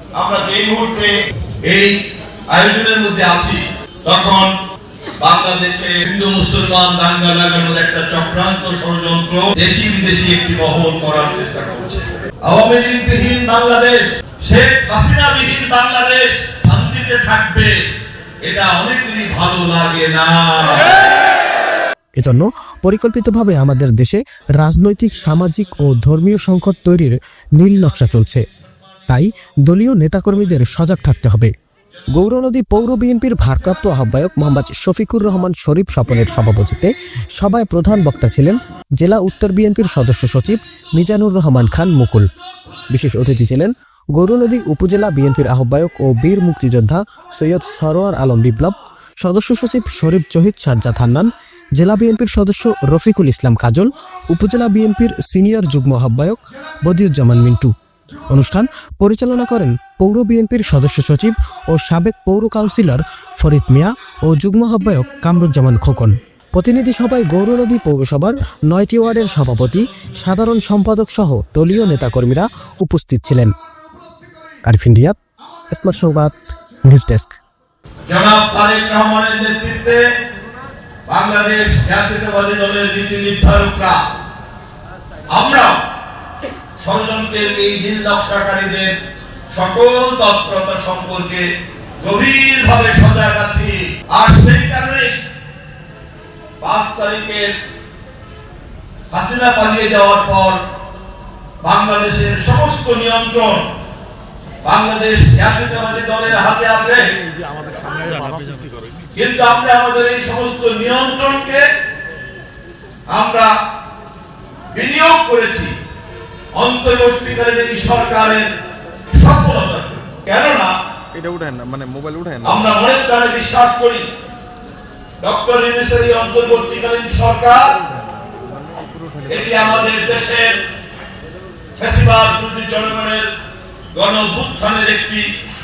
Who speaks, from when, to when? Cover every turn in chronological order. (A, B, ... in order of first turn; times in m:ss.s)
0:00.2-0:01.1 A
0:01.7-0:01.9 A
0:02.5-0:04.5 A
0:05.2-0:17.8 A
0:18.5-0:20.9 A
0:22.2-0:28.4 B
0:29.1-0:31.5 B
0:32.2-0:42.3 B
0:42.9-0:57.7 B
0:58.3-1:13.5 B
1:14.6-1:15.2 B
1:15.7-1:17.4 B
1:18.1-1:20.0 A
1:21.1-1:24.0 A
1:25.3-1:25.7 A
1:26.8-1:28.9 A
1:29.5-1:31.5 A
1:32.0-1:35.2 A
1:36.6-1:37.5 A
1:39.1-1:40.6 A
1:41.6-1:43.7 A
1:44.6-1:47.0 A
1:47.7-1:48.6 C
1:49.2-1:51.6 A
1:53.1-1:53.5 A
1:54.7-1:55.7 A
1:56.6-1:58.5 A
1:59.2-2:00.7 A
2:01.2-2:02.4 C
2:02.4-2:04.1 A
2:05.2-2:07.7 A
2:09.3-2:10.6 A
2:11.8-2:13.3 A
2:14.0-2:15.3 A